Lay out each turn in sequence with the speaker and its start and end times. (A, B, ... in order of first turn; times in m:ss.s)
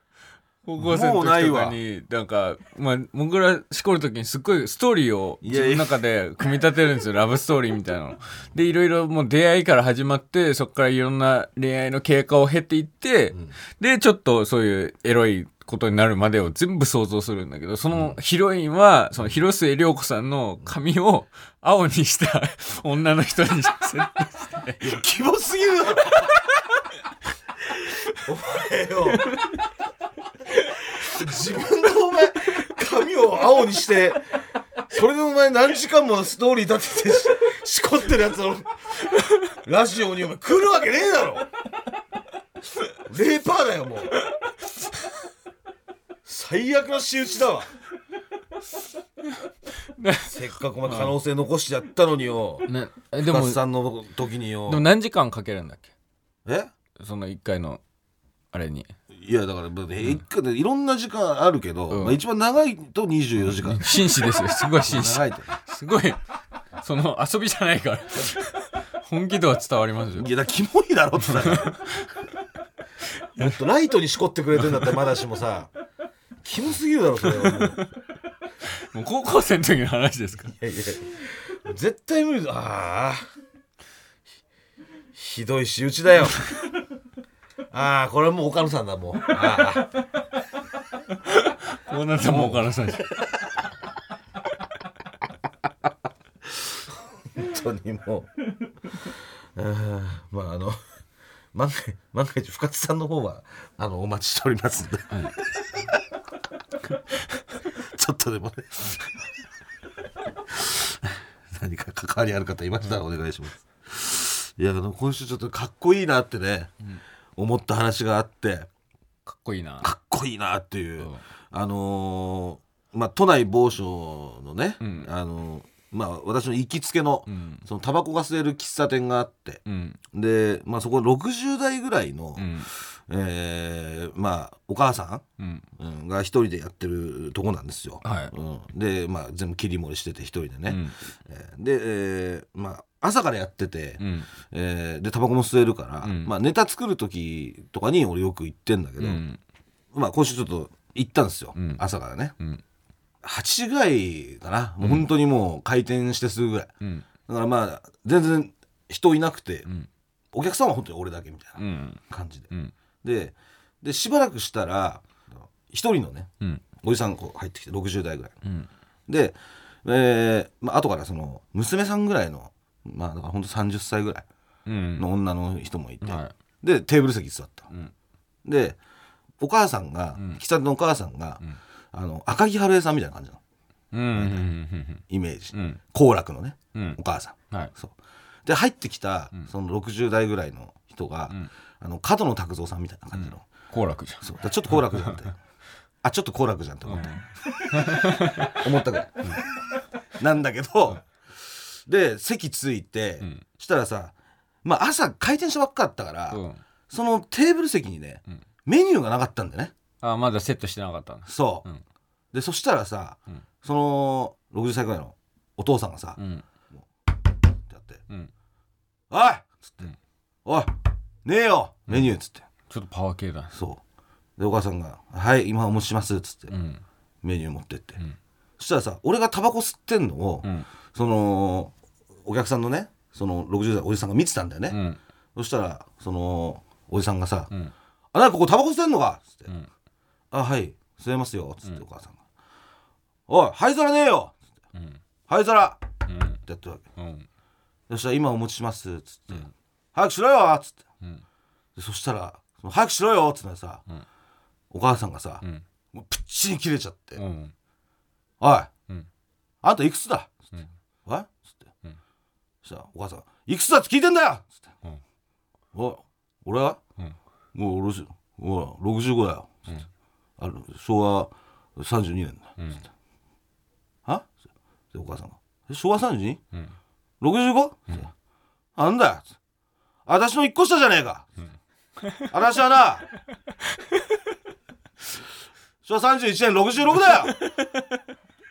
0:00.6-0:24.9 A
0:00.8-0:01.8 B
0:05.4-0:06.0 B
0:24.8-0:26.4 B
0:28.1-0:29.4 B
0:30.9-0:34.3 B
0:34.9-0:38.8 B
0:39.6-0:41.5 B
0:43.1-0:44.2 B
0:46.2-0:47.7 B
0:50.0-0:50.3 A
0:50.2-0:52.7 B
0:50.9-0:51.1 A
0:52.7-0:53.6 A
0:53.2-0:54.9 B
0:54.7-0:55.9 A
0:56.5-0:56.7 B
0:57.0-0:57.8 A
0:58.5-0:58.9 A
0:59.1-1:03.9 B
1:01.9-1:02.2 A
1:03.6-1:06.2 A
1:04.7-1:05.5 B
1:06.8-1:10.3 A
1:10.2-1:11.8 B
1:11.4-1:11.8 A
1:13.4-1:15.7 B
1:16.4-1:17.8 B
1:18.9-1:20.5 A
1:20.5-1:23.2 B
1:25.2-1:26.5 B
1:27.7-1:29.9 B
1:31.3-1:33.1 A
1:32.2-1:33.4 B
1:36.4-1:38.3 B
1:39.0-1:40.8 B
1:41.5-1:45.4 B
1:47.7-1:49.1 B
1:50.5-1:56.7 B
1:57.4-1:58.7 B
1:59.3-1:59.9 A
1:59.8-2:09.6 B
2:01.0-2:01.2 A
2:04.8-2:05.1 A
2:07.3-2:07.7 A
2:09.7-2:10.0 A
2:10.1-2:15.2 B
2:12.4-2:12.7 A
2:15.4-2:15.7 A
2:15.8-2:29.2 B
2:18.0-2:18.3 A
2:20.7-2:21.0 A
2:24.0-2:24.3 A
2:26.0-2:26.3 A
2:29.0-2:29.4 A
2:29.9-2:32.4 B
2:31.6-2:31.8 A
2:33.2-2:36.7 B
2:34.8-2:35.1 A
2:37.3-2:39.7 B
2:40.3-2:42.5 B
2:41.6-2:42.7 A
2:43.0-2:48.4 B
2:48.4-2:48.7 A
2:49.1-2:54.3 B
2:54.7-2:55.1 A
2:55.0-2:57.7 B
2:56.0-2:56.3 A
2:58.4-2:58.8 B
2:59.4-3:01.4 B
3:01.9-3:03.4 B
3:03.9-3:05.0 A
3:04.1-3:04.5 B
3:05.1-3:08.0 B
3:05.5-3:05.8 A
3:06.7-3:07.0 A
3:08.5-3:13.4 B
3:13.1-3:14.2 A
3:14.2-3:15.4 B
3:16.0-3:19.3 B
3:16.9-3:18.6 A
3:20.2-3:24.1 B
3:24.6-3:29.7 B
3:26.3-3:26.6 A
3:30.0-3:31.8 A
3:31.3-3:31.7 B
3:32.3-3:36.2 B
3:36.2-3:36.4 A
3:37.7-3:38.0 B
3:39.1-3:39.9 B
3:40.5-3:42.5 B
3:42.7-3:43.6 A
3:43.5-3:43.8 B
3:44.4-3:46.5 B
3:46.5-3:46.8 A
3:47.2-3:48.0 B
3:48.6-3:51.7 B
3:52.2-3:54.8 B
3:54.7-3:55.0 A
3:55.4-3:57.5 B
3:58.1-3:59.5 B
4:00.3-4:02.2 B
4:03.3-4:04.4 B
4:04.8-4:05.0 A
4:05.3-4:05.9 B
4:06.1-4:06.4 A
4:06.4-4:06.8 B
4:07.0-4:07.3 A
4:07.9-4:10.8 B
4:11.8-4:13.8 B
4:14.7-4:17.2 B
4:17.2-4:17.5 A
4:18.4-4:18.7 B
4:19.6-4:20.5 B
4:21.0-4:21.7 B
4:22.6-4:24.7 B
4:25.7-4:26.8 B
4:27.5-4:29.7 B
4:30.4-4:32.6 B
4:34.9-4:36.4 B
4:37.2-4:38.1 B
4:38.8-4:39.3 B
4:40.1-4:41.3 B
4:42.3-4:43.1 B
4:45.8-4:47.4 B